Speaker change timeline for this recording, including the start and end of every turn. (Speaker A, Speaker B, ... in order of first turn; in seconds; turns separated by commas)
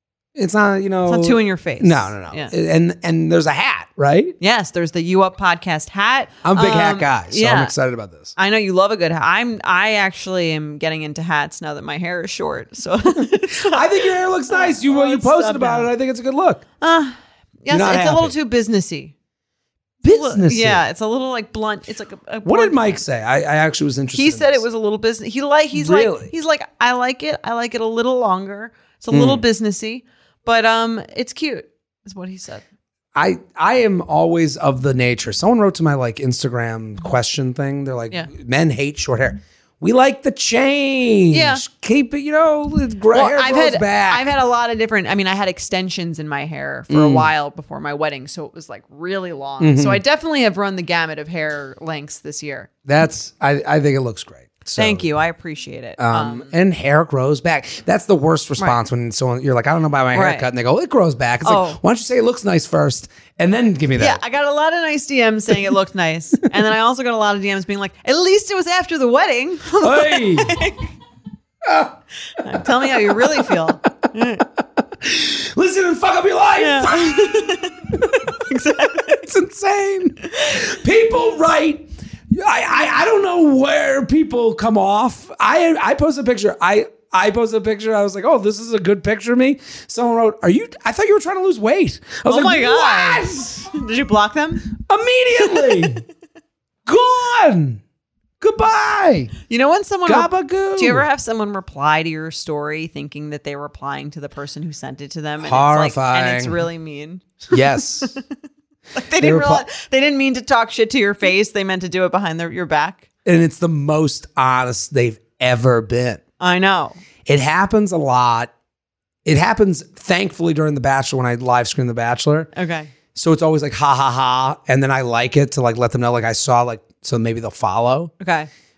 Speaker A: 0.3-4.3, Speaker B: 1.0-2.5, Speaker B: 4.4-7.7, Speaker A: 6.4-8.3, Speaker B: 8.3-15.9, Speaker A: 13.2-16.6, Speaker B: 16.8-19.1, Speaker A: 17.7-18.3, Speaker A: 20.0-20.8, Speaker B: 20.1-23.0, Speaker A: 22.4-24.6, Speaker B: 24.1-32.6, Speaker A: 25.7-26.3, Speaker A: 29.1-29.4, Speaker A: 33.1-44.3, Speaker B: 41.3-41.6, Speaker B: 43.1-52.7, Speaker A: 46.9-47.3, Speaker A: 49.6-50.0, Speaker A: 52.8-55.1, Speaker B: 54.8-56.5, Speaker A: 56.0-64.2, Speaker B: 60.1-60.5, Speaker B: 61.4-61.8, Speaker B: 64.0-70.9, Speaker A: 69.8-70.6, Speaker A: 71.6-72.0, Speaker B: 72.3-74.5, Speaker A: 72.6-73.5, Speaker A: 75.0-77.6, Speaker B: 76.6-79.2, Speaker A: 79.0-93.7, Speaker B: 80.3-80.6, Speaker B: 92.2-94.7, Speaker A: 94.8-96.0, Speaker B: 95.4-95.9, Speaker A: 96.8-97.8, Speaker A: 98.4-99.3, Speaker B: 99.5-108.2, Speaker A: 100.0-101.0, Speaker A: 105.4-106.6, Speaker A: 107.5-108.1, Speaker B: 108.9-113.0, Speaker A: 109.2-109.7, Speaker A: 113.2-116.2, Speaker B: 116.4-117.0, Speaker A: 117.2-118.5, Speaker A: 119.2-122.5, Speaker B: 122.5-122.9, Speaker A: 123.1-128.1, Speaker B: 128.2-128.5